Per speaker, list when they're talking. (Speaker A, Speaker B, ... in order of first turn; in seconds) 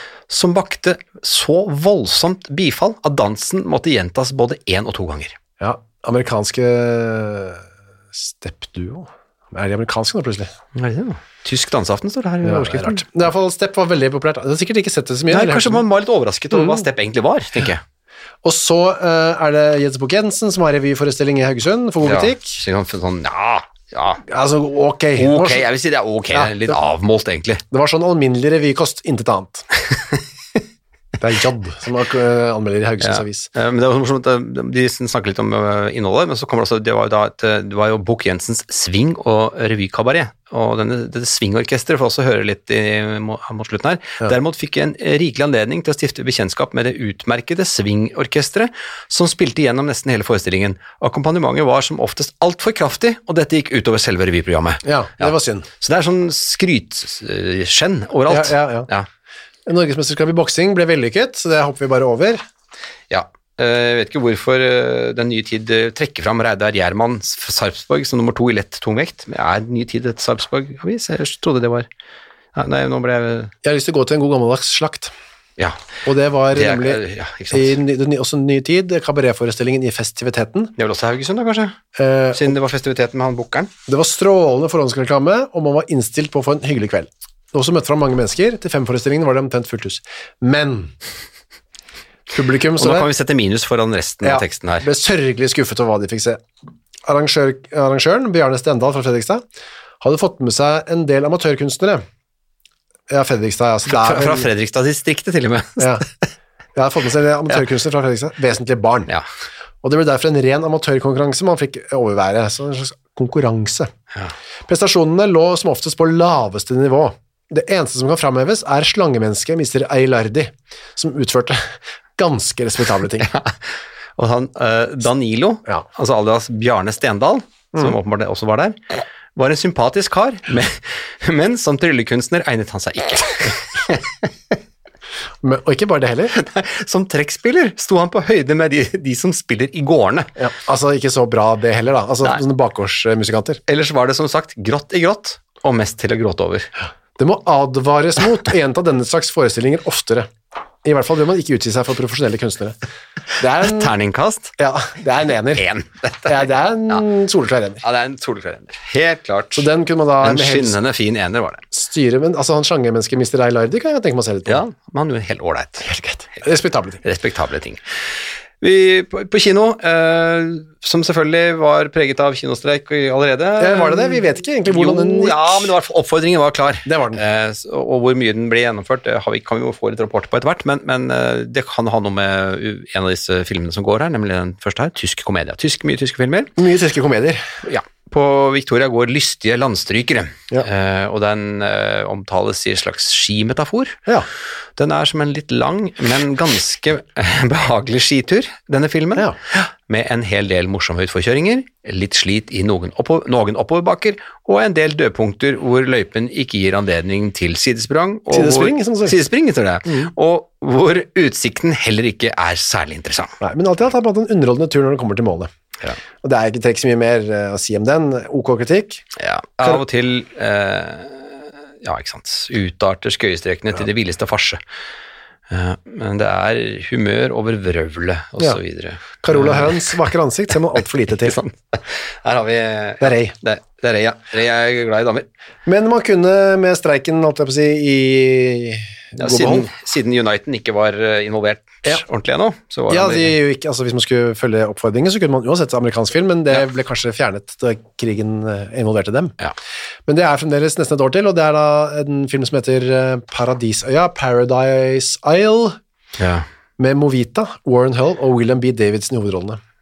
Speaker A: 0.3-5.4, 10.8-13.1, 15.3-17.8, 22.0-24.2, 25.2-27.6, 33.0-59.1, 63.1-71.9, 72.5-73.5, 75.6-75.8, 76.5-77.8, 80.8-81.8, 82.3-83.7, 92.8-94.9, 103.9-106.0, 123.2-134.6, 136.3-140.3, 143.7-146.7, 153.6-154.6, 155.6-157.0, 157.8-159.7, 160.2-161.6, 164.5-165.9, 167.0-167.8, 168.6-186.6, 187.6-194.0, 194.8-213.4, 219.2-224.6, 225.5-230.1, 231.2-235.3, 239.2-243.3, 256.2-256.5
Speaker B: 5.6-10.5, 12.4-15.8, 16.5-16.9, 18.4-22.6, 24.3-25.6, 27.7-29.7, 31.2-33.5, 54.8-55.7, 58.3-58.9, 59.7-62.4, 73.6-75.1, 76.0-80.7, 82.0-82.5, 83.9-90.9, 92.3-93.1, 94.2-96.4, 97.1-99.4, 100.0-102.0, 103.1-104.5, 105.8-106.0, 106.8-109.1, 109.8-113.9, 114.7-123.3, 135.4-136.3, 140.4-143.6, 147.2-150.3, 150.8-152.8, 153.4-153.9, 154.6-155.7, 156.3-157.8, 159.6-160.8, 161.7-164.6, 165.8-167.0, 173.6-175.7, 176.9-177.2, 186.6-187.5, 208.3-209.2, 209.9-210.1, 213.4-215.5, 216.2-219.1, 229.2-231.4, 233.0-233.3, 235.7-239.7, 242.9-249.3, 250.1-255.8, 256.8-259.6